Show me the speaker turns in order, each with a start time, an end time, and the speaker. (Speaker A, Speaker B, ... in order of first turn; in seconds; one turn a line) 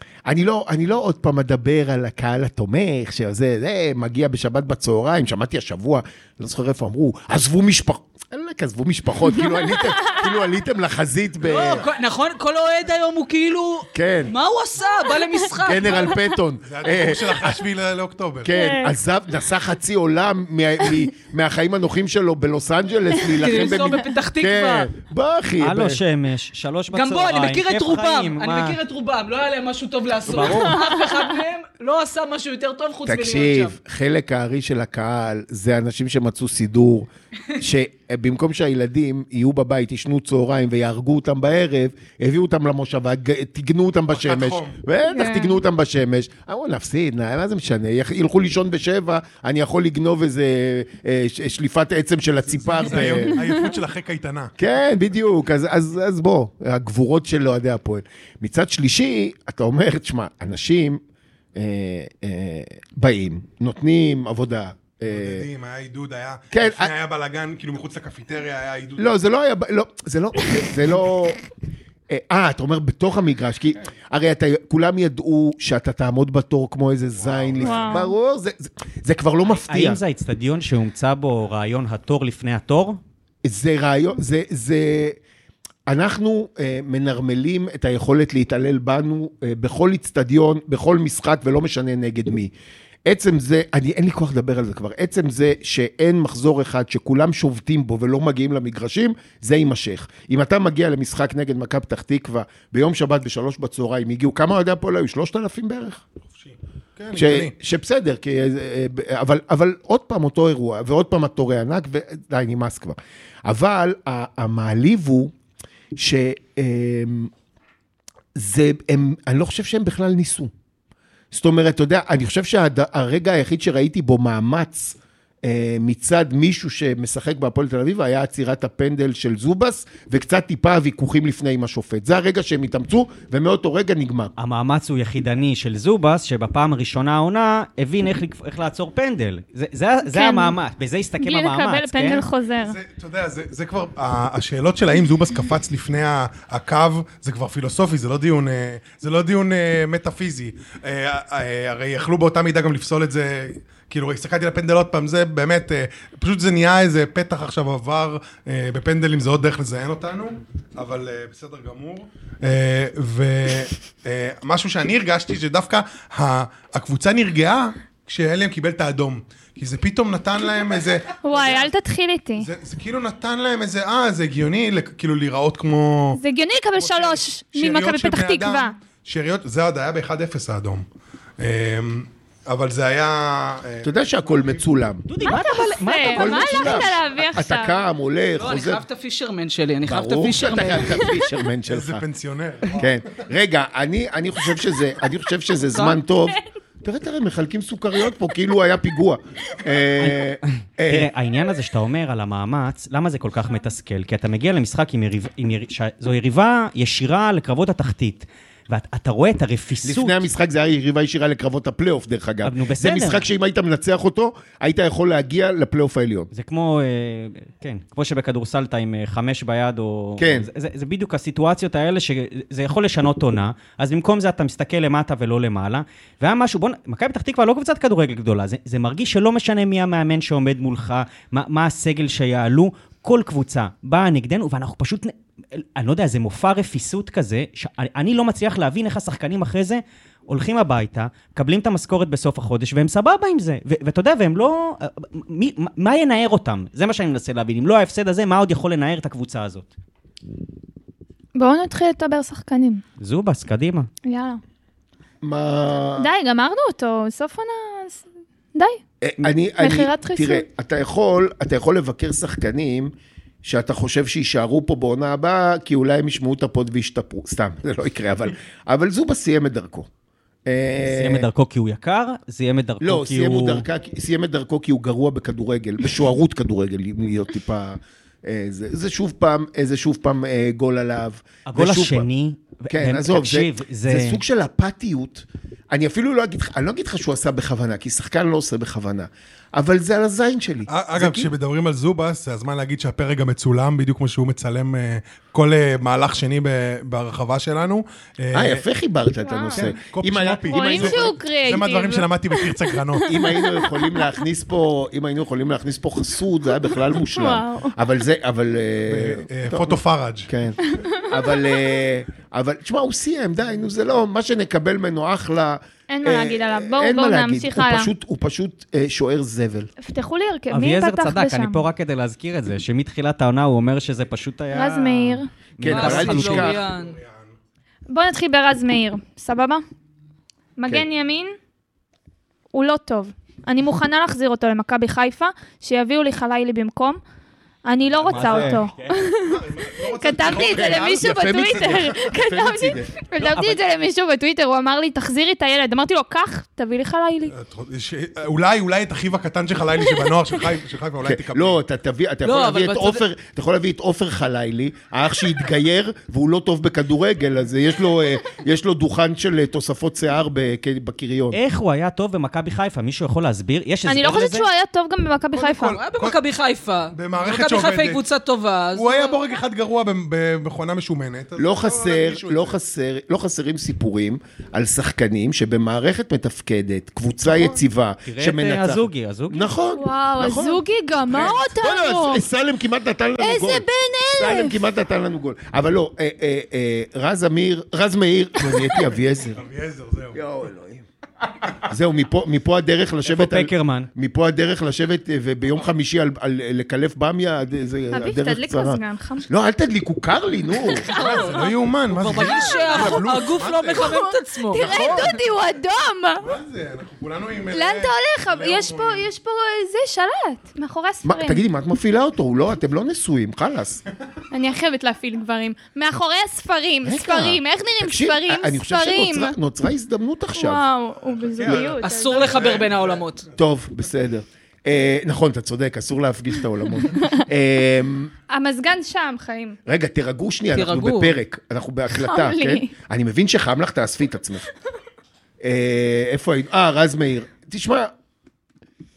Speaker A: 0.2-11.9
Speaker B: 9.4-10.2
Speaker C: 11.4-16.1
Speaker A: 13.9-14.3
Speaker A: 15.6-17.6
Speaker D: 16.6-18.5
Speaker A: 18.4-26.0
Speaker B: 18.5-18.9
Speaker C: 23.3-24.9
Speaker E: 25.6-28.8
Speaker C: 26.9-33.8
Speaker E: 30.3-30.8
Speaker A: 33.0-53.4
Speaker D: 44.1-44.8
Speaker B: 45.1-45.6
Speaker D: 52.5-54.5
Speaker A: 54.6-61.0
Speaker A: 61.5-65.5
Speaker D: 65.1-69.1
Speaker A: 66.5-66.9
Speaker A: 69.0-71.4
Speaker A: 72.1-80.0
Speaker D: 77.2-77.9
Speaker B: 77.6-78.1
Speaker E: 79.5-83.0
Speaker A: 83.4-85.2
Speaker A: 85.9-92.5
Speaker A: 93.0-106.0
Speaker D: 106.3-107.5
Speaker A: 107.1-115.3
Speaker A: 116.0-117.3
Speaker A: 118.3-120.5
Speaker A: 121.3-134.3
Speaker E: 134.4-142.2
Speaker B: 140.0-140.5
Speaker B: 141.2-142.8
Speaker D: 142.6-171.7
Speaker B: 171.2-172.5
Speaker D: 172.4-176.2
Speaker B: 176.2-178.7
Speaker D: 176.8-180.8
Speaker D: 181.4-184.6
Speaker A: 183.8-185.1
Speaker E: 185.1-186.9
Speaker B: 185.3-187.8
Speaker A: 185.9-188.8
Speaker C: 188.3-191.0
Speaker A: 189.9-192.0
Speaker D: 191.7-192.9
Speaker A: 192.7-201.1
Speaker E: 200.0-210.2
Speaker A: 209.8-216.3
Speaker E: 212.4-213.2
Speaker E: 216.3-249.7
Speaker A: 220.2-220.5
Speaker B: 251.3-252.8
Speaker E: 253.0-253.9
Speaker B: 254.0-254.4
Speaker A: 255.2-256.1
Speaker B: 256.0-258.8
Speaker A: 259.0-262.9
Speaker B: 259.6-260.4
Speaker A: 263.4-269.9
Speaker A: 270.4-271.3
Speaker E: 270.8-273.6
Speaker A: 272.8-282.1
Speaker E: 281.4-284.2
Speaker A: 282.7-291.3
Speaker D: 290.7-298.6
Speaker A: 298.3-301.1
Speaker B: 299.2-299.7
Speaker D: 299.6-303.2
Speaker B: 300.5-304.2
Speaker A: 303.1-319.7
Speaker B: 307.1-307.7
Speaker D: 308.9-310.3
Speaker B: 310.6-311.2
Speaker B: 315.9-317.9
Speaker B: 319.8-321.6
Speaker E: 320.5-326.5
Speaker B: 324.5-325.3
Speaker A: 325.6-326.6
Speaker C: 325.6-327.0
Speaker D: 325.8-327.3
Speaker B: 327.9-329.6
Speaker B: 330.6-331.4
Speaker B: 332.5-337.0
Speaker B: 337.6-347.3
Speaker D: 337.9-338.7
Speaker E: 338.0-338.9
Speaker D: 339.2-342.1
Speaker A: 340.2-342.9
Speaker E: 343.1-343.6
Speaker D: 347.3-351.6
Speaker A: 351.0-361.4
Speaker C: 352.2-353.0
Speaker E: 361.3-364.5
Speaker B: 363.9-365.8
Speaker D: 365.3-366.2
Speaker C: 365.7-369.2
Speaker D: 366.9-368.0
Speaker D: 368.7-372.6
Speaker A: 371.4-389.4
Speaker E: 378.0-379.5
Speaker B: 379.8-382.2
Speaker D: 381.1-381.4
Speaker B: 383.2-384.6
Speaker D: 389.3-390.2
Speaker A: 390.1-390.8
Speaker A: 391.6-400.9
Speaker E: 393.0-393.9
Speaker B: 397.9-399.3
Speaker B: 400.6-401.6
Speaker D: 400.9-403.9
Speaker C: 401.9-405.0
Speaker B: 402.1-403.1
Speaker B: 403.7-406.3
Speaker D: 404.6-405.1
Speaker A: 404.6-405.0
Speaker D: 406.2-409.1
Speaker B: 407.5-411.4
Speaker A: 411.0-413.8
Speaker B: 414.3-419.3
Speaker A: 416.8-420.6
Speaker B: 420.4-422.5
Speaker D: 421.3-423.1
Speaker C: 421.8-423.2
Speaker A: 423.4-428.1
Speaker B: 426.9-427.2
Speaker B: 428.3-429.6
Speaker A: 429.6-434.5
Speaker C: 430.5-431.1
Speaker B: 431.9-432.7
Speaker A: 435.4-437.9